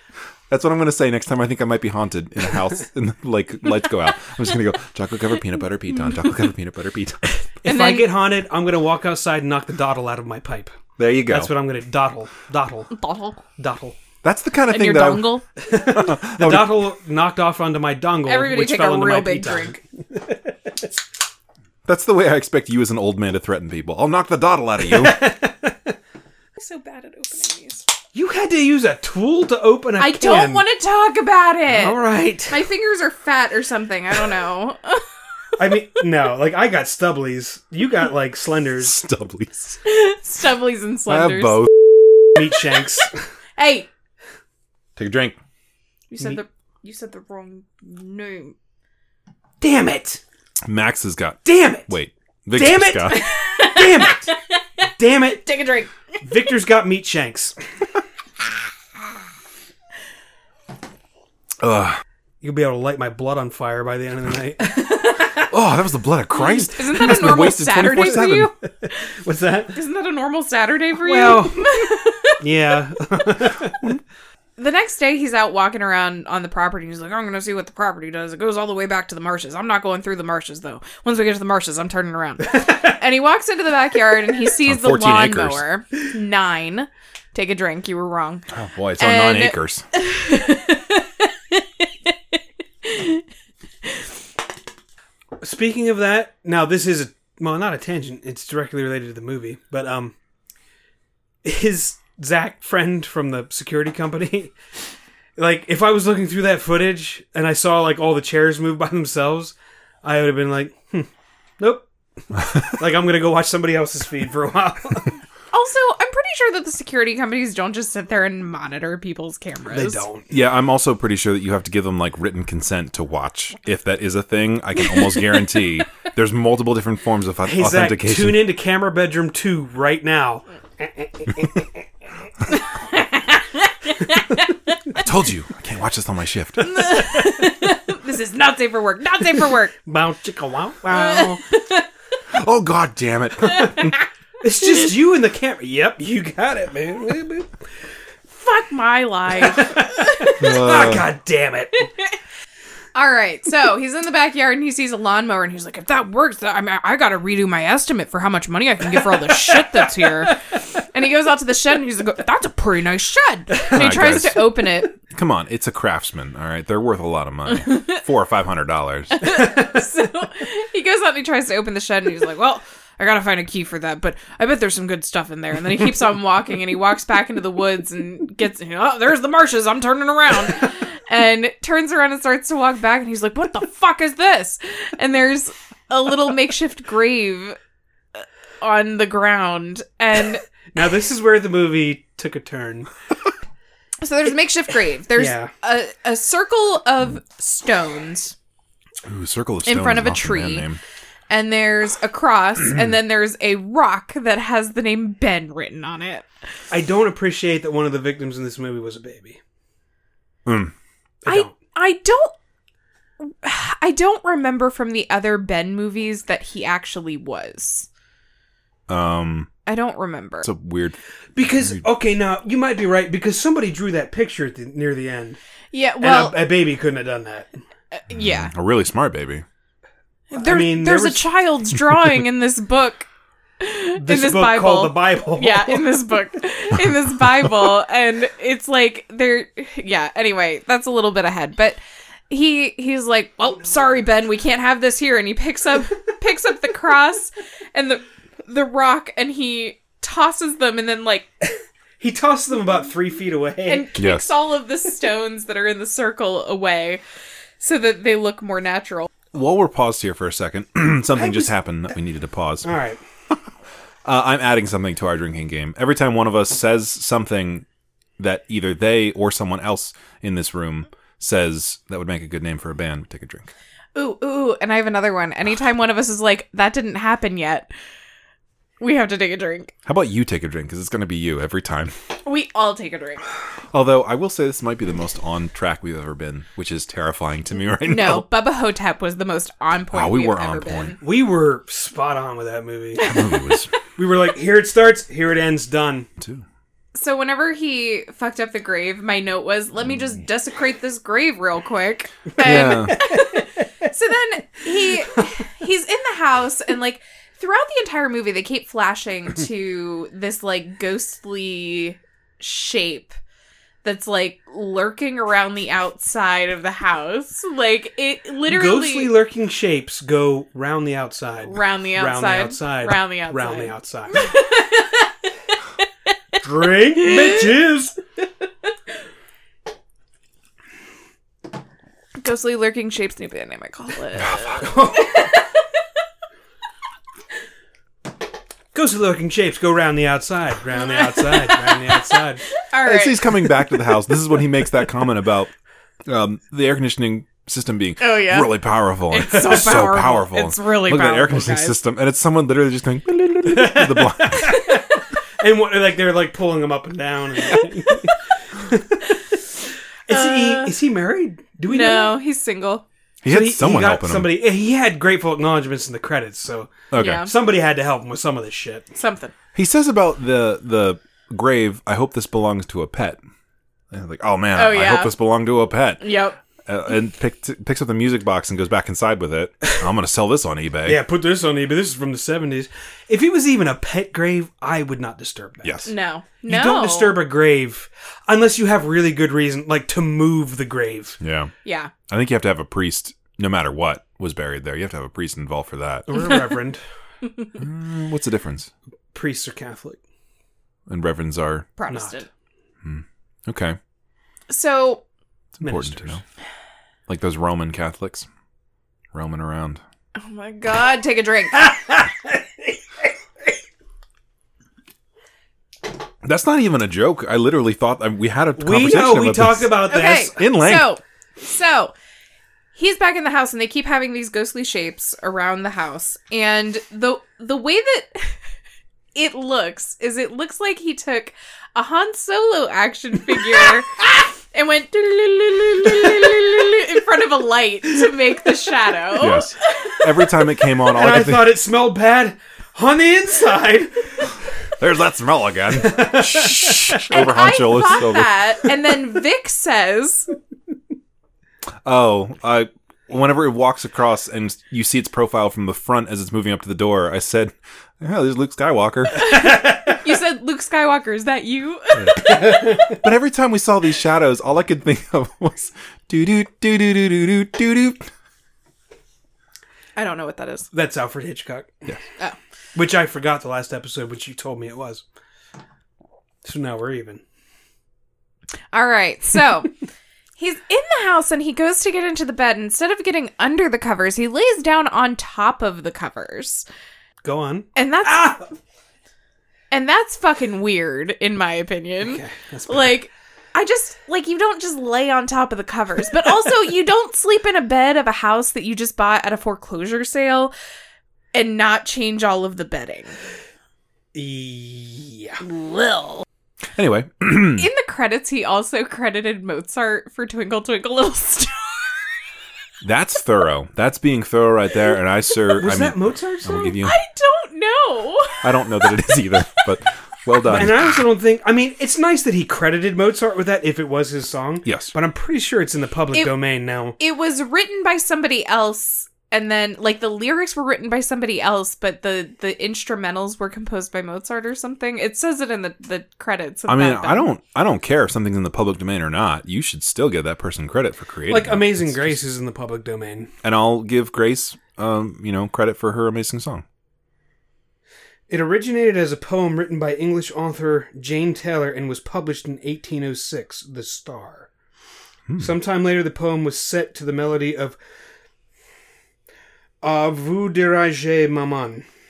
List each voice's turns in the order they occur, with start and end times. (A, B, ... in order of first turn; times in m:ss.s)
0:00.5-0:07.3 A
0:07.6-0:08.1 B
0:07.6-0:12.9 C
0:11.0-0:11.5 A
0:12.9-0:13.4 B
0:13.6-0:14.0 C
0:14.2-0:16.8 A
0:14.7-0:15.4 B
0:15.6-0:20.7 C
0:18.3-0:19.8 B
0:21.9-0:25.2 A
0:24.8-0:26.0 C
0:26.6-0:27.9 B
0:28.1-0:30.7 C
0:30.0-0:35.1 B
0:31.7-0:32.6 C
0:35.6-0:39.0 C
0:38.8-0:39.8 A
0:39.8-0:41.7 B
0:41.1-0:42.2 A
0:42.4-0:43.2 C
0:42.5-0:43.0 B
0:43.6-0:43.9 B
0:45.0-0:45.4 A
0:46.1-0:48.6 B
0:49.6-0:50.2 C
0:50.6-0:53.3 A
0:51.4-0:51.9 C
0:52.5-0:54.3 C
0:53.1-0:54.6 B
0:55.0-0:55.6 C
0:55.4-0:55.9 B
0:56.2-0:57.6 C
1:01.6-1:02.0 A
1:02.4-1:04.8 C
1:04.8-1:05.5 B
1:05.5-1:08.5 A
1:06.4-1:09.0 B
1:09.1-1:09.8 C
1:09.7-1:12.4 B
1:11.0-1:11.7 C
1:12.4-1:13.8 C
1:14.6-1:28.5 B
1:24.7-1:25.6 A
1:28.5-1:29.8 A
1:29.0-1:31.9 B
1:32.8-1:33.2 B
1:35.4-1:40.1 C
1:41.4-1:44.5 C
1:45.4-1:51.1 C
1:51.6-1:55.2 C
1:55.5-2:00.1 B
1:59.7-2:00.3 C
2:00.3-2:08.5 A
2:07.4-2:11.8 C
2:12.5-2:15.0 B
2:15.0-2:16.9 A
2:16.6-2:19.7 B
2:19.8-2:21.4 C
2:20.9-2:21.9 B
2:22.3-2:23.9 A
2:23.4-2:24.1 B
2:24.4-2:27.5 C
2:28.3-2:30.8 B
2:29.4-2:31.9 C
2:30.4-2:31.1 A
2:32.9-2:45.0 B
2:39.3-2:40.3 C
2:43.7-2:49.2 A
2:47.5-2:48.0 B
2:49.2-3:07.6 B
3:08.6-3:10.4 B
3:10.7-3:12.9 C
3:14.0-3:18.4 B
3:15.2-3:15.5 C
3:19.0-3:20.8 A
3:19.6-3:20.7 B
3:21.3-3:26.3 B
3:26.7-3:29.4 C
3:30.5-3:30.7 A
3:31.3-3:31.5 C
3:31.3-3:32.3 B
3:33.2-3:37.9 B
3:38.9-3:39.5 A
3:39.7-3:40.5 B
3:40.4-3:41.8 A
3:41.4-3:45.4 C
3:45.7-3:46.4 B
3:46.0-3:47.5 C
3:47.9-3:48.5 B
3:48.1-3:49.4 A
3:50.3-3:53.1 B
3:50.4-3:51.2 C
3:53.6-4:11.3 B
3:54.0-3:56.1 C
4:12.0-4:13.9 C
4:13.7-4:17.0 B
4:14.0-4:14.3 A
4:17.6-4:19.1 B
4:19.3-4:22.7 A
4:21.2-4:21.5 C
4:22.6-4:23.0 C
4:24.0-4:27.7 A
4:28.2-4:33.5 A
4:34.0-4:37.7 B
4:38.8-4:39.7 B
4:39.8-4:41.9 A
4:42.2-4:43.2 B
4:43.7-4:48.3 A
4:47.8-4:51.0 B
4:49.9-4:51.0 A
4:51.0-4:53.1 C
4:53.0-4:53.4 B
4:53.0-4:53.7 A
4:54.0-4:56.1 C
4:56.2-4:56.4 A
4:57.0-5:13.2 B
5:02.4-5:03.1 A
5:13.8-5:19.1 B
5:18.5-5:24.3 C
5:21.4-5:25.1 B
5:26.4-5:28.0 C
5:27.0-5:27.4 B
5:32.2-5:35.5 B
5:34.6-5:35.2 C
5:38.7-5:42.4 C
5:40.7-5:43.7 B
5:42.8-5:45.5 A
5:46.1-5:54.6 A
5:48.0-5:51.8 B
5:53.5-5:59.0 C
5:54.5-5:54.9 B
6:00.1-6:02.2 C
6:00.1-6:00.7 B
6:01.7-6:02.8 B
6:03.2-6:04.3 A
6:03.3-6:08.9 C
6:06.9-6:07.3 A
6:07.0-6:07.3 B
6:09.0-6:09.3 B
6:09.6-6:13.2 A
6:13.9-6:16.0 A
6:14.6-6:15.1 B
6:16.0-6:16.4 B
6:16.6-6:21.0 A
6:20.8-6:25.9 C
6:25.6-6:25.9 A
6:25.8-6:27.2 B
6:26.4-6:31.2 C
6:31.2-6:31.5 A
6:31.6-6:31.9 B
6:32.1-6:36.1 A
6:36.1-6:36.8 C
6:37.6-6:38.7 A
6:39.1-6:40.0 C
6:40.9-6:41.7 A
6:41.8-6:42.3 B
6:41.9-6:42.2 C
6:42.8-6:43.8 A
6:44.5-6:45.0 B
6:45.6-6:46.2 A
6:45.6-6:46.2 C
6:47.1-6:48.3 A
6:49.1-6:49.8 A
6:50.2-6:51.7 B
6:51.6-6:52.4 C
6:56.2-7:00.9 A
6:58.6-7:00.5 C
6:59.9-7:01.9 B
7:02.7-7:08.4 B
7:09.2-7:20.4 B
7:19.2-7:21.6 A
7:20.9-7:24.3 C
7:24.8-7:28.3 A
7:25.8-7:27.1 C
7:27.1-7:30.3 B
7:31.8-7:39.2 A
7:39.1-7:42.7 B
7:42.0-7:48.1 A
7:42.3-7:43.0 C
7:50.0-7:50.7 B
7:50.7-7:51.7 C
7:52.8-7:55.0 C
7:56.4-7:57.2 C
7:58.7-7:59.8 B
8:00.4-8:06.7 B
8:07.2-8:08.4 C
8:07.8-8:08.5 B
8:09.7-8:20.5 B
8:12.0-8:13.0 C
8:21.3-8:23.2 B
8:24.1-8:25.4 C
8:25.4-8:26.2 B
8:26.8-8:27.7 A
8:27.6-8:31.8 B
8:32.8-8:37.0 A
8:35.5-8:36.8 C
8:36.8-8:38.5 B
8:38.4-8:41.0 A
8:40.4-8:47.0 C
8:44.7-8:44.9 A
8:47.0-8:57.3 B
8:56.7-9:02.2 A
9:01.3-9:03.3 C
9:03.4-9:06.6 A
9:08.3-9:14.5 C
9:15.4-9:17.8 C
9:19.8-9:21.8 C